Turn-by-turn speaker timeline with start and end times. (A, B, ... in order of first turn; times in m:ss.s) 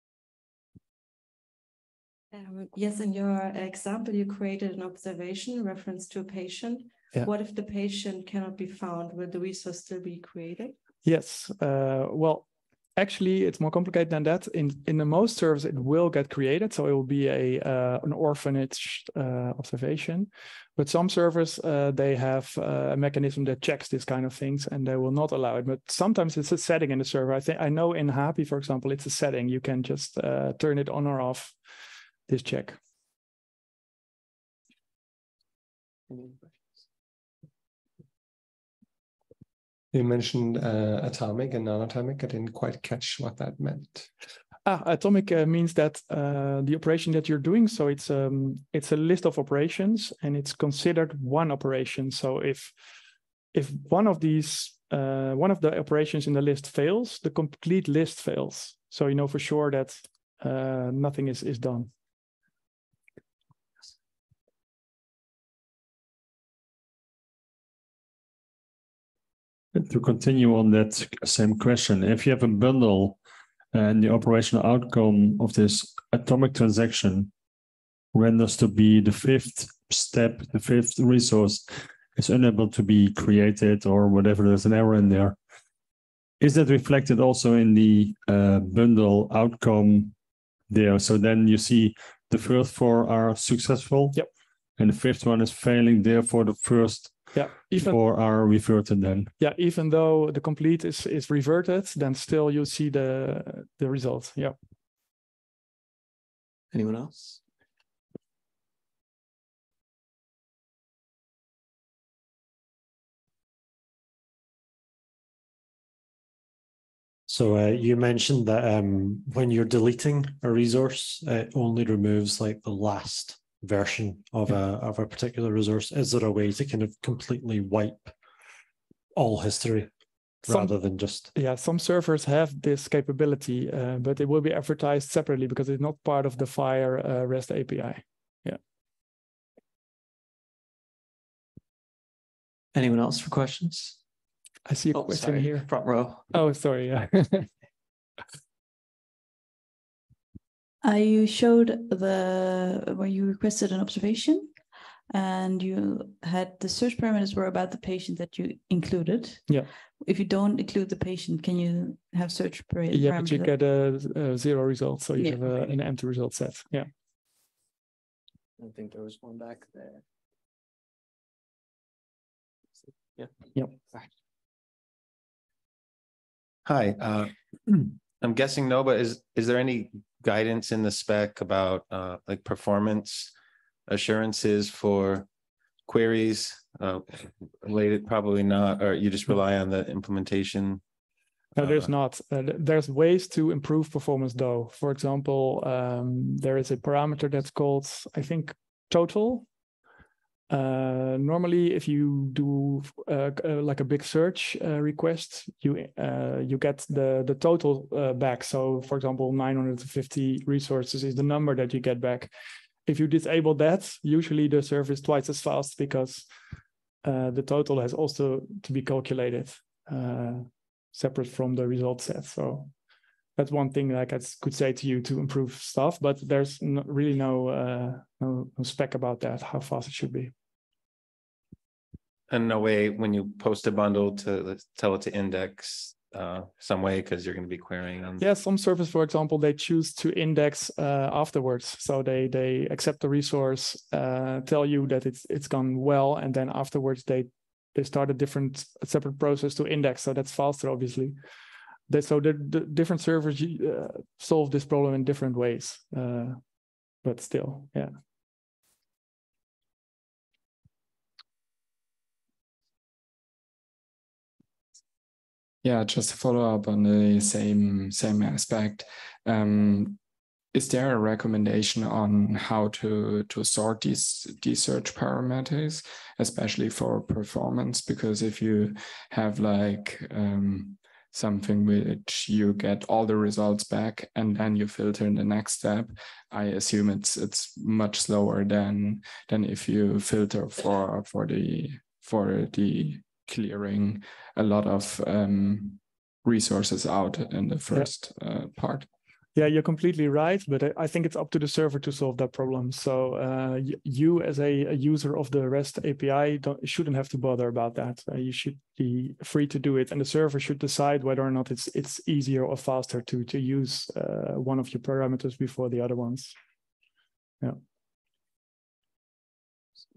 0:02.3-0:10.8 A
0:11.0-0:31.6 B
0:32.3-0:32.8 B
0:36.1-0:36.5 C
0:39.9-0:44.1 D
0:44.7-0:52.8 B
0:53.5-1:01.9 B
1:09.7-1:13.2 E
1:13.7-1:17.3 E
1:18.1-1:25.4 E
1:26.4-1:30.1 E
1:30.7-1:34.2 E
1:34.8-1:39.3 E
1:37.3-1:38.0 B
1:39.4-1:44.6 B
1:46.7-1:47.4 C
1:57.3-2:08.2 F
2:09.2-2:09.9 F
2:10.4-2:11.3 F
2:10.5-2:18.6 B
2:22.7-2:24.0 C
2:24.7-2:25.7 B
2:24.9-2:26.3 C
2:26.3-2:27.5 B
2:30.8-2:43.5 G
2:42.9-2:46.9 B
2:48.6-2:50.0 C
2:56.7-3:03.3 H
3:03.9-3:05.3 H
3:05.9-3:10.8 H
3:11.6-3:19.5 B
3:11.6-3:11.9 H
3:20.5-3:32.3 B
3:32.9-3:36.3 B
3:37.0-3:42.7 B
3:43.4-3:50.3 B
3:52.3-3:58.2 H
3:58.2-4:11.2 B
4:11.9-4:16.4 B
4:17.0-4:17.9 B
4:25.6-4:30.0 I
4:30.5-4:58.9 I
4:59.4-5:16.4 B